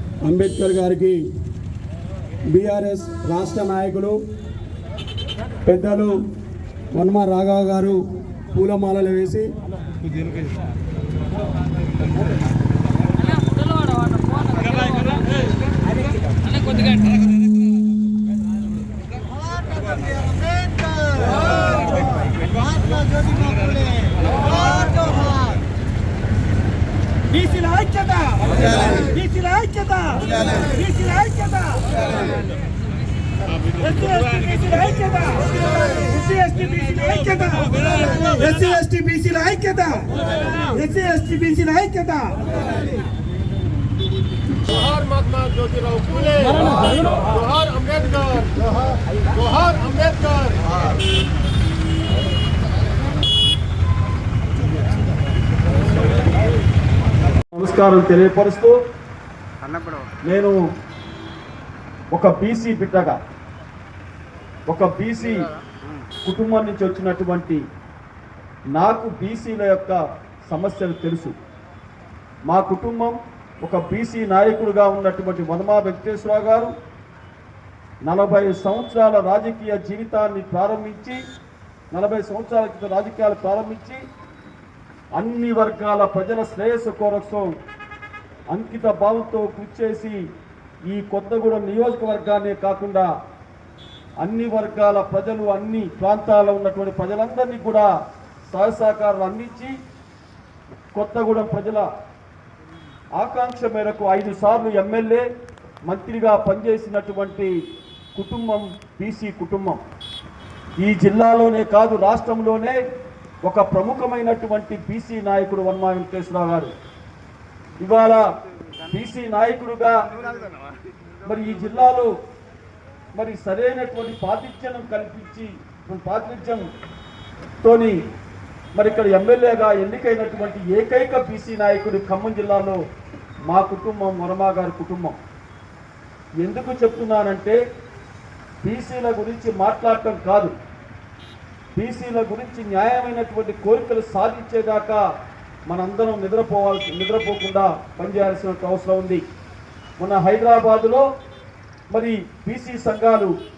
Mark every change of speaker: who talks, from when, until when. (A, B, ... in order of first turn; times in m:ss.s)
0:00.3-0:01.1 A
0:00.4-0:01.2 B
0:02.6-0:04.2 B
0:03.4-0:04.1 A
0:05.7-0:06.1 A
0:05.7-0:06.1 B
0:07.0-0:08.0 B
0:08.6-0:09.5 B
0:08.6-0:09.4 A
0:24.6-0:25.2 C
0:27.3-0:31.9 B
0:33.7-0:42.5 B
0:45.7-0:46.5 C
0:46.4-0:46.7 B
0:47.4-0:48.4 C
0:49.6-0:50.4 C
0:57.5-0:58.8 A
0:59.6-1:00.1 C
1:00.2-1:00.6 A
1:02.1-1:03.2 A
1:04.7-1:05.5 A
1:06.2-1:07.6 A
1:08.8-1:11.4 A
1:12.5-1:16.7 A
1:18.1-1:21.2 A
1:21.9-1:24.0 A
1:25.2-1:27.5 A
1:28.5-1:30.2 A
1:30.9-1:33.1 A
1:34.2-1:37.9 A
1:38.5-1:39.8 A
1:40.9-1:41.9 A
1:43.2-1:45.3 A
1:45.9-1:47.5 A
1:48.2-1:49.8 A
1:50.8-1:52.8 A
1:53.4-1:56.7 A
1:57.8-1:58.2 A
1:58.9-2:00.0 A
2:01.2-2:02.1 A
2:03.2-2:06.7 A
2:07.6-2:08.0 A
2:08.8-2:12.8 A
2:13.5-2:15.2 A
2:16.4-2:17.6 A
2:18.6-2:20.5 A
2:21.8-2:25.0 A
2:25.7-2:29.2 A
2:30.0-2:31.1 A
2:31.9-2:33.3 A